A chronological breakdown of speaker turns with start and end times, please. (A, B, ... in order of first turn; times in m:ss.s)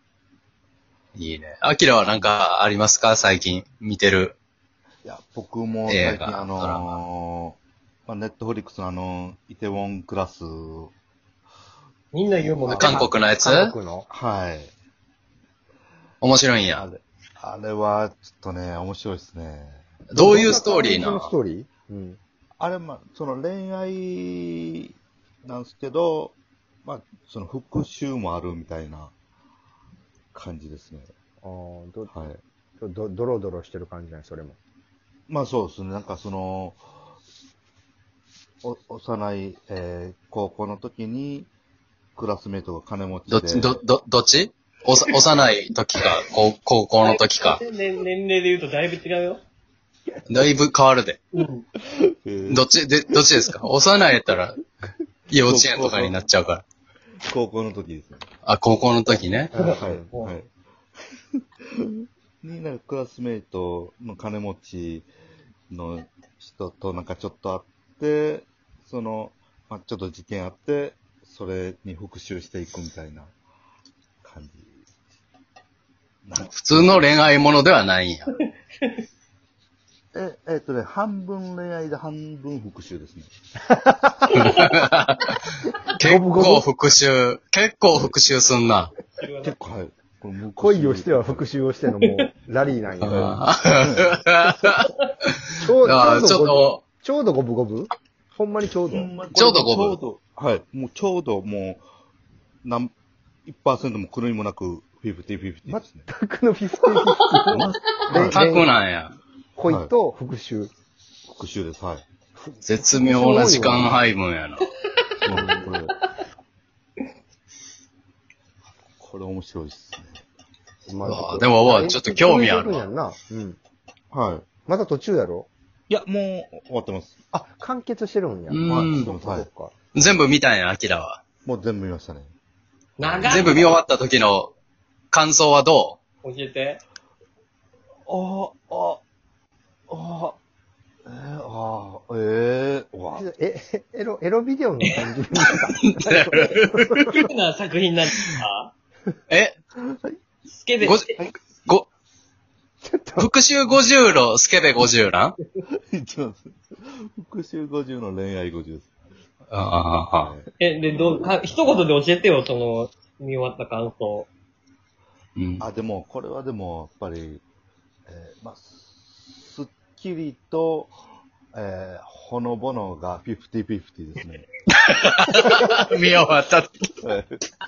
0:01.1-0:04.4 A
0:05.0-0:10.9 B
0:05.9-0:06.8 A
0:12.1-0:13.0 C
0:12.6-0:14.1 D
0:12.8-0:13.7 A
0:14.1-0:14.7 B
0:16.2-0:16.9 A
0:16.7-0:20.3 B
0:20.1-0:21.2 A
0:20.2-0:22.2 D
0:22.6-0:24.9 B
0:25.4-0:29.1 B
0:30.3-0:31.1 B
0:31.4-0:32.1 D
0:32.1-0:32.4 B
0:32.8-0:34.6 D
0:35.3-0:36.8 B
0:38.6-0:41.5 B
0:42.2-0:43.7 B
0:43.3-0:47.6 A
0:47.0-0:49.4 C
0:50.3-0:51.2 A
0:51.3-0:51.6 C
0:51.9-0:52.7 B
0:52.5-0:54.6 A
0:55.3-0:56.6 A
0:55.3-0:56.2 B
0:57.2-0:58.3 B
0:58.4-0:59.5 A
0:59.5-1:00.1 D
0:59.6-1:00.3 C
0:59.8-1:00.5 B
1:01.7-1:05.1 B
1:05.7-1:13.3 B
1:14.2-1:14.8 B
1:16.2-1:17.3 B
1:16.5-1:18.3 A
1:20.1-1:23.3 B
1:23.7-1:24.6 D
1:24.3-1:25.4 A
1:26.0-1:28.9 A
1:26.0-1:26.6 D
1:29.2-1:29.6 C
1:29.4-1:31.5 B
1:30.6-1:33.4 D
1:33.0-1:36.8 A
1:33.0-1:34.2 B
1:35.5-1:39.1 D
1:38.9-1:41.8 B
1:39.3-1:40.0 A
1:42.6-1:42.9 B
1:43.4-1:46.0 B
1:45.7-1:48.7 D
1:47.5-1:49.1 A
1:48.1-1:48.4 B
1:49.6-1:50.7 D
1:51.3-1:52.0 B
1:52.4-1:54.0 D
1:52.6-1:54.6 A
1:55.2-1:55.7 D
1:55.2-1:55.9 B
1:59.0-2:00.2 B
2:00.9-2:03.6 D
2:01.0-2:02.8 A
2:04.1-2:04.5 B
2:04.6-2:05.5 D
2:05.9-2:07.1 B
2:07.3-2:09.7 D
2:08.5-2:09.1 A
2:08.7-2:09.5 B
2:09.9-2:11.2 A
2:11.4-2:12.3 B
2:13.0-2:13.7 C
2:13.0-2:13.7 B
2:13.2-2:14.5 A
2:15.1-2:16.0 A
2:16.2-2:16.8 C
2:18.1-2:19.0 B
2:19.9-2:20.4 B
2:21.0-2:23.2 B
2:23.1-2:27.2 D
2:25.5-2:27.2 A
2:27.1-2:28.7 C
2:29.3-2:29.6 A
2:29.8-2:30.2 B
2:30.5-2:31.2 C
2:30.8-2:31.1 A
2:32.8-2:33.3 D
2:33.2-2:35.4 A
2:35.6-2:38.9 B
2:39.5-2:40.3 A
2:40.0-2:40.4 B
2:40.6-2:44.3 C
2:45.4-2:45.6 A
2:45.6-2:47.4 B
2:48.1-2:50.9 B
2:51.5-2:54.5 B
2:54.7-2:56.9 A
2:55.5-2:55.7 D
2:57.0-2:57.4 B